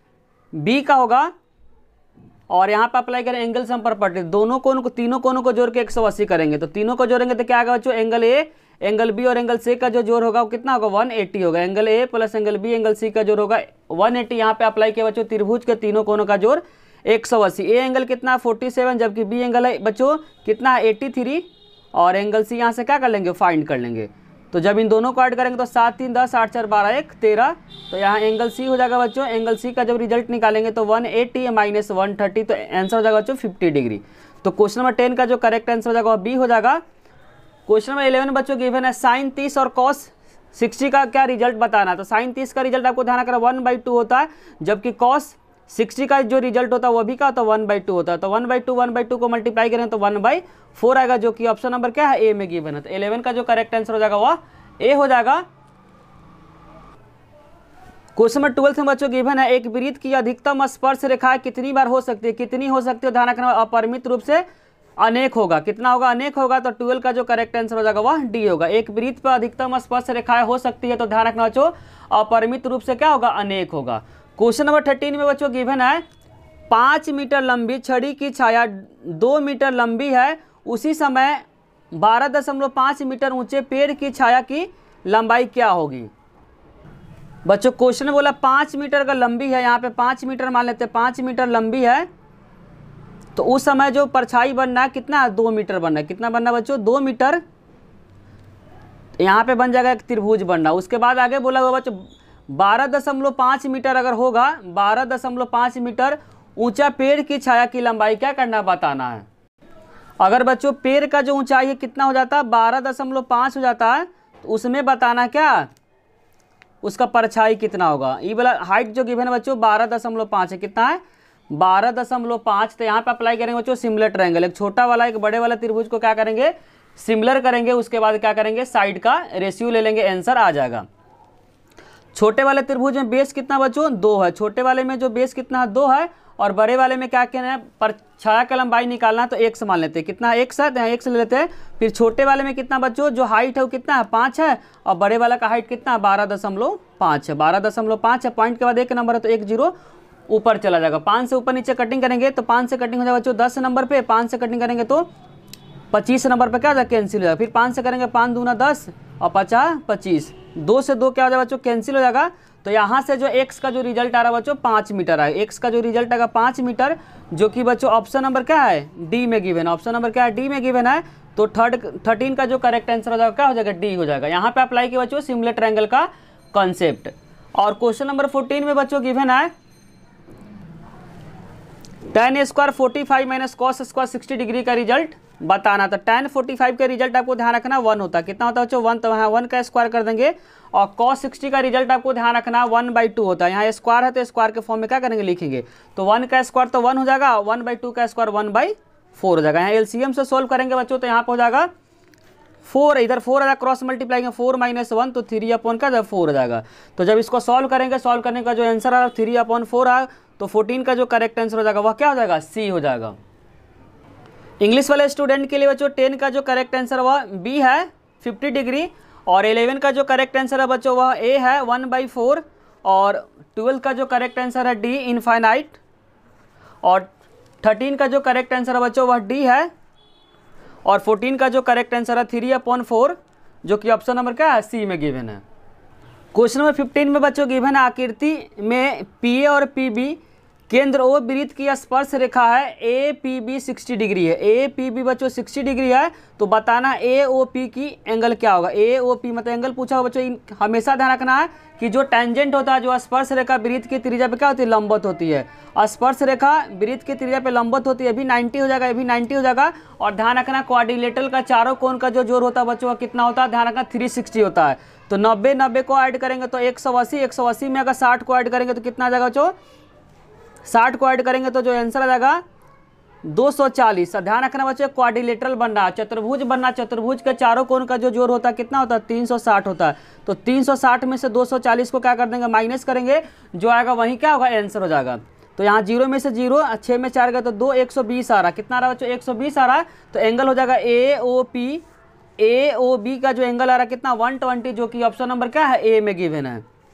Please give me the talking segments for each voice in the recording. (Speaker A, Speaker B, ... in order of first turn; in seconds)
Speaker A: 0.5-1.3, 2.5-36.8, 37.7-55.4, 58.1-64.4, 65.0-76.0, 76.7-81.4, 81.9-86.1, 87.4-92.1, 93.3-97.4, 99.2-109.2, 110.2-115.7, 116.8-130.8, 132.1-149.7, 150.3-155.1, 155.9-179.5, 182.1-201.7, 202.7-213.2, 214.6-225.8, 226.8-227.1, 227.6-229.7, 230.8-235.4, 236.3-269.5, 270.6-272.4, 273.2-291.9, 292.4-296.6